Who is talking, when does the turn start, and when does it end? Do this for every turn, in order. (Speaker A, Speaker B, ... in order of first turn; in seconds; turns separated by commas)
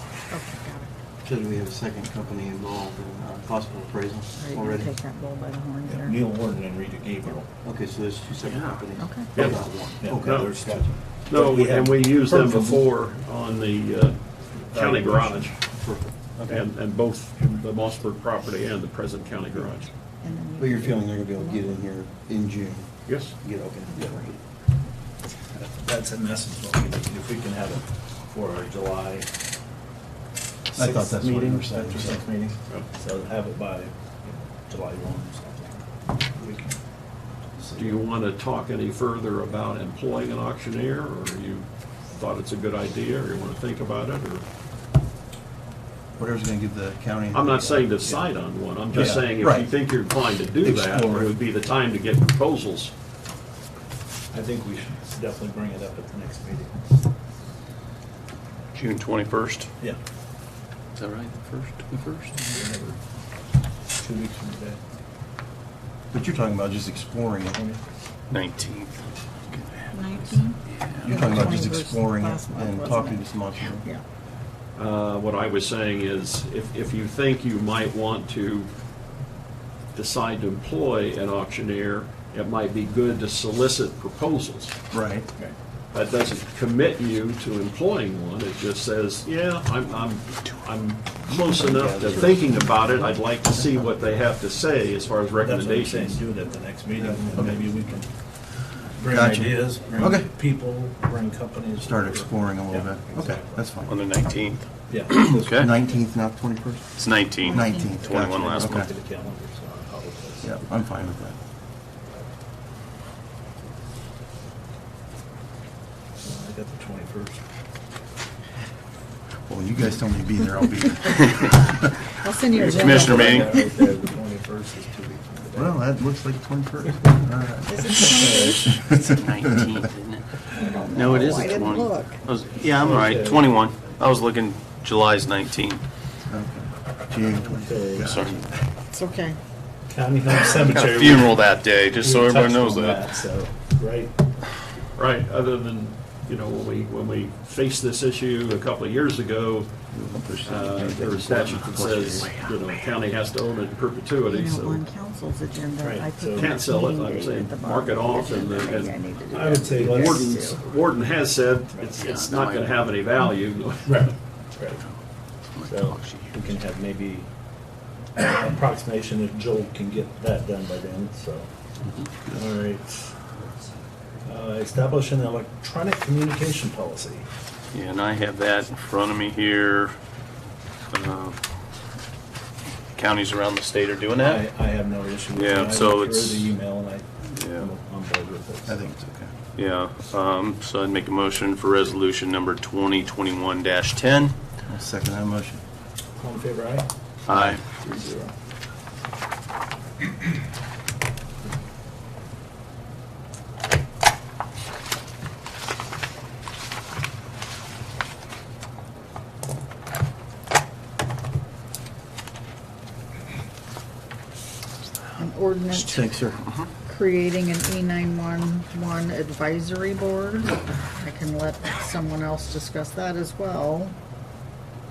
Speaker A: 0.3-0.9, Speaker B: 1.2-4.9, Speaker A: 4.4-6.2, Speaker C: 5.9-7.5, Speaker B: 7.6-11.0, Speaker D: 8.4-8.8, Speaker A: 9.0-9.3, Speaker E: 9.3-10.6, Speaker C: 10.0-12.8, Speaker E: 11.2-15.7, Speaker B: 14.7-16.6, Speaker E: 16.4-19.9, Speaker A: 20.2-21.9, Speaker B: 20.6-24.4, Speaker E: 23.1-23.3, Speaker A: 23.9-24.2, Speaker C: 25.6-29.3, Speaker C: 30.7-36.8, Speaker B: 30.8-32.5, Speaker C: 37.6-38.0, Speaker E: 37.8-44.5, Speaker B: 46.2-47.9, Speaker E: 47.3-52.9, Speaker C: 48.9-49.3, Speaker B: 48.9-49.7, Speaker B: 50.6-51.4, Speaker C: 54.3-56.8, Speaker D: 58.8-59.7, Speaker D: 61.0-62.6, Speaker C: 62.5-63.0, Speaker C: 64.0-64.8, Speaker B: 66.1-67.6, Speaker C: 67.5-67.8, Speaker D: 68.3-71.0, Speaker A: 69.9-74.0, Speaker B: 71.0-73.8, Speaker E: 74.8-78.7, Speaker E: 79.9-84.8, Speaker B: 84.9-85.3, Speaker E: 85.9-96.2, Speaker B: 91.3-93.9, Speaker C: 95.4-98.3, Speaker B: 97.0-97.7, Speaker C: 98.9-103.8, Speaker B: 99.1-100.3, Speaker B: 101.8-104.0, Speaker D: 103.9-105.7, Speaker C: 104.9-105.4, Speaker B: 105.2-108.9, Speaker D: 107.0-108.9, Speaker A: 107.4-108.1, Speaker C: 108.1-110.5, Speaker B: 110.4-111.4, Speaker C: 116.2-117.4, Speaker B: 119.5-121.8, Speaker A: 122.2-123.8, Speaker C: 122.6-125.8, Speaker D: 122.6-123.6, Speaker B: 125.6-128.1, Speaker A: 127.7-128.8, Speaker C: 128.1-128.9, Speaker D: 129.0-130.4, Speaker A: 130.6-132.2, Speaker D: 130.9-135.8, Speaker C: 132.7-133.6, Speaker B: 136.3-138.6, Speaker C: 137.4-138.2, Speaker D: 138.0-138.4, Speaker A: 138.9-139.4, Speaker C: 139.9-144.1, Speaker D: 140.6-143.2, Speaker E: 144.9-149.7, Speaker B: 149.9-152.3, Speaker E: 150.4-154.8, Speaker D: 152.1-152.7, Speaker A: 154.3-160.6, Speaker C: 155.8-156.5, Speaker E: 156.3-159.0, Speaker C: 159.3-160.5, Speaker E: 159.7-164.2, Speaker D: 162.0-162.9, Speaker C: 164.6-164.8, Speaker D: 165.5-166.5, Speaker C: 165.7-167.3, Speaker C: 168.2-171.5, Speaker C: 172.3-173.1, Speaker C: 174.2-177.3, Speaker D: 177.7-180.0, Speaker D: 180.9-181.4, Speaker D: 183.0-184.5, Speaker C: 184.1-188.8, Speaker D: 185.3-186.6, Speaker D: 187.3-187.7, Speaker B: 188.7-189.3, Speaker D: 189.6-194.4, Speaker B: 194.7-195.6, Speaker C: 196.2-196.9, Speaker D: 197.3-197.7, Speaker C: 197.7-198.3, Speaker A: 215.2-216.1, Speaker B: 215.7-216.4, Speaker A: 216.8-223.9